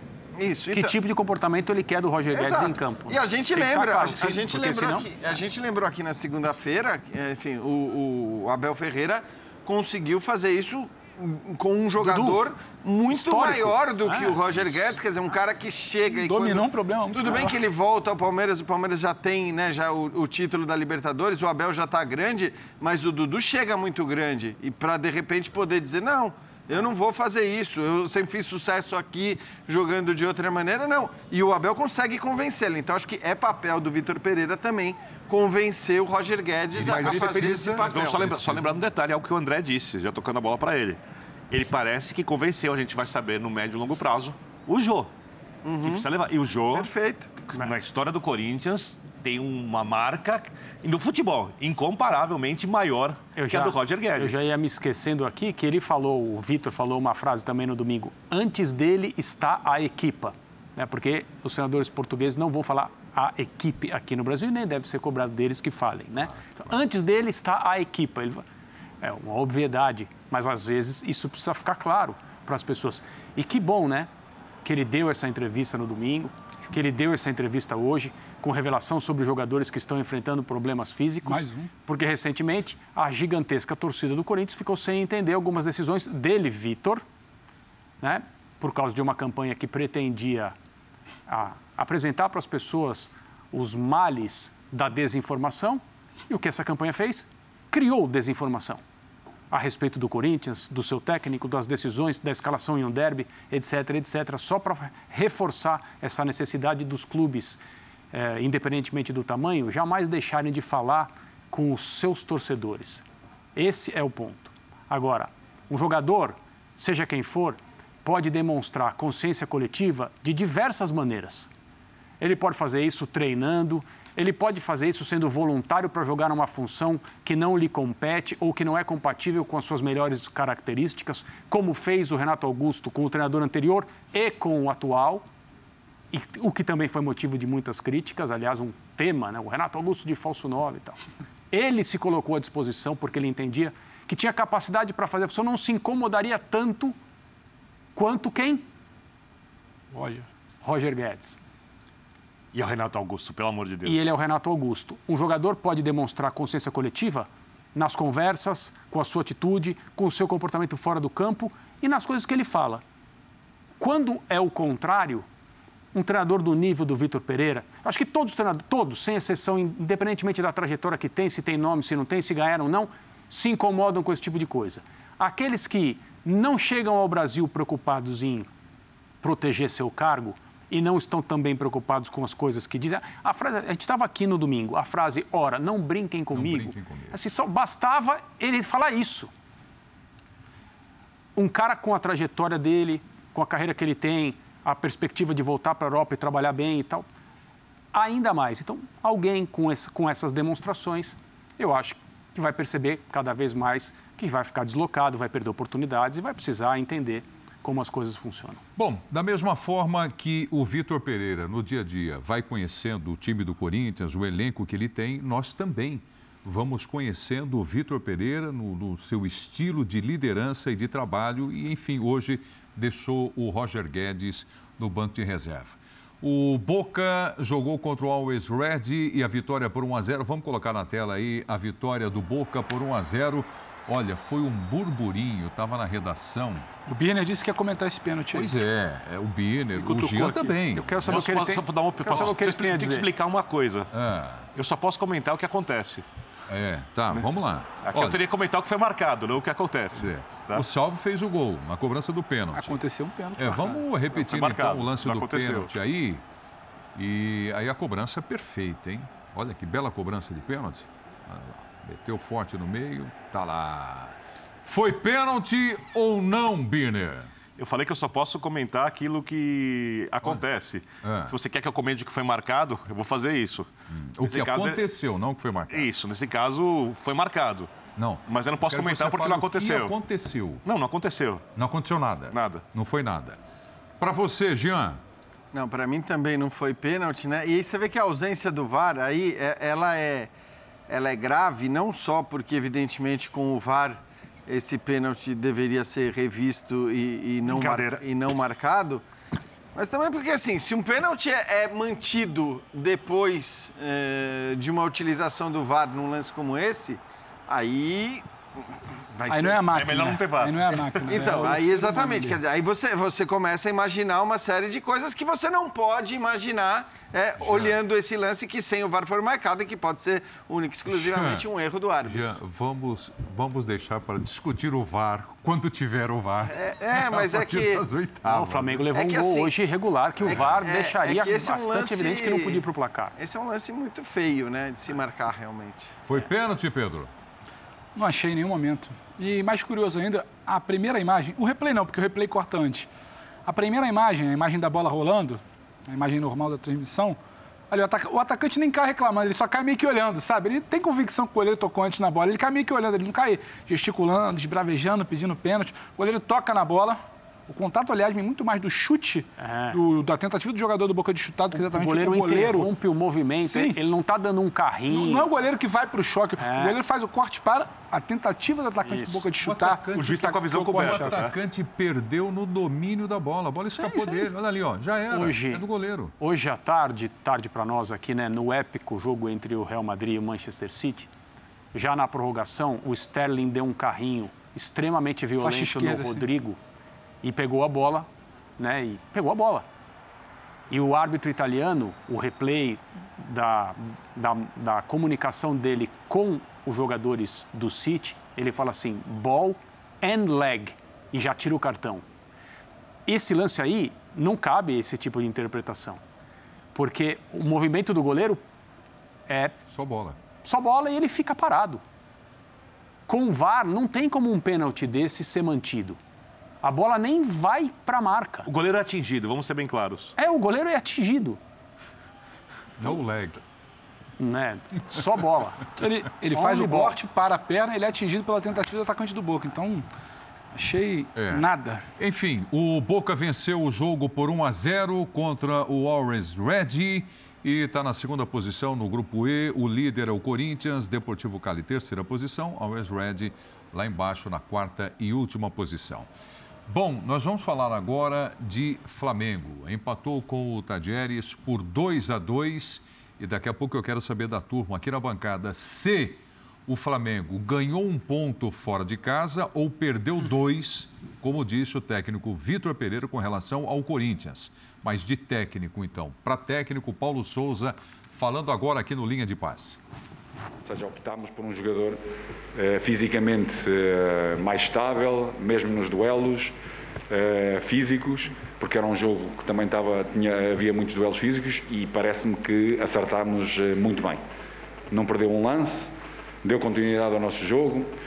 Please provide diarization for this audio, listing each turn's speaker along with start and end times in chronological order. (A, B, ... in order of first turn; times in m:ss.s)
0:00.4-0:00.9 A
0:00.7-0:05.1 B
0:02.3-0:38.3 A
0:12.0-0:12.4 B
0:13.1-0:14.7 B
0:16.1-0:17.6 C
0:36.7-0:38.7 D
0:36.8-0:41.0 E
0:41.5-0:45.1 E
0:45.6-0:46.1 A
0:45.8-0:46.9 E
0:46.7-0:47.3 A
0:47.5-0:54.4 E
0:53.4-1:08.4 B
1:09.0-1:14.1 B
1:14.6-1:27.0 B
1:21.2-1:21.7 C
1:28.0-1:30.6 B
1:31.3-1:38.8 B
1:39.5-1:47.6 B
1:48.1-2:01.5 B
2:02.2-2:15.2 B
2:16.1-2:21.0 B
2:21.5-2:27.0 B
2:27.9-2:28.6 B
2:29.9-2:30.2 C
2:30.6-2:31.4 B
2:32.5-2:34.1 E
2:33.8-2:42.8 B
2:43.8-2:45.2 B
2:45.9-2:58.5 B
2:59.2-3:09.3 B
3:06.3-3:07.2 D
3:11.4-3:17.0 B
3:17.9-3:28.6 B
3:28.8-3:56.7 D
3:56.9-3:58.6 C
3:58.3-4:01.3 D
3:59.8-4:00.5 C
4:00.6-4:03.1 B
4:01.1-4:03.9 E
4:03.9-4:04.5 D
4:04.5-4:06.0 E
4:06.5-4:08.2 D
4:07.8-4:10.6 E
4:09.9-4:12.8 D
4:12.5-4:13.8 C
4:13.4-4:16.2 D
4:14.1-4:15.7 E
4:16.9-4:27.3 D
4:27.6-4:33.7 E
4:31.0-4:31.3 D
4:33.9-4:35.9 D
4:34.2-4:34.8 E
4:35.7-4:37.7 E
4:38.0-4:40.6 D
4:38.3-4:40.0 E
4:40.6-4:41.4 E
4:41.6-4:43.4 D
4:42.3-4:42.6 E
4:44.0-4:45.0 D
4:45.5-4:50.3 A
4:50.9-4:59.0 A
4:57.4-4:58.0 E
4:59.7-5:09.7 A
5:09.3-5:12.4 C
5:09.7-5:11.5 E
5:11.1-5:22.3 A
5:17.4-5:17.8 D
5:20.9-5:21.5 D
5:22.0-5:28.8 D
5:26.5-5:27.8 A
5:28.2-5:33.1 B
5:28.9-5:29.6 A
5:30.2-5:36.0 A
5:30.3-5:30.6 D
5:36.0-5:37.1 D
5:37.9-5:42.9 C
5:43.5-5:47.2 C
5:47.7-6:02.7 C
5:59.4-5:59.8 B
6:01.5-6:05.3 B
6:03.4-6:03.8 C
6:04.9-6:11.2 C
6:06.4-6:06.8 B
6:08.8-6:09.2 B
6:09.4-6:16.1 D
6:09.9-6:11.4 E
6:13.7-6:14.2 B
6:15.1-6:15.6 B
6:16.2-6:21.1 B
6:21.7-6:26.6 B
6:25.4-6:26.3 C
6:27.2-6:29.6 B
6:30.7-6:42.0 B
6:43.1-6:46.0 B
6:46.7-6:48.4 B
6:49.3-6:49.5 B
6:49.7-6:50.2 D
6:50.4-6:51.8 B
6:53.1-6:56.0 B
6:56.6-6:58.5 B
6:58.4-7:00.1 E
7:00.2-7:01.4 B
7:02.8-7:03.4 D
7:04.2-7:05.6 B
7:05.8-7:09.8 C
7:06.3-7:07.0 B
7:10.5-7:11.8 C
7:11.2-7:11.4 D
7:12.0-7:26.1 D
7:26.7-7:49.8 D
7:50.6-7:52.0 F
7:52.5-7:56.5 F
7:57.1-8:04.2 F
8:04.9-8:05.9 F
8:06.4-8:07.9 F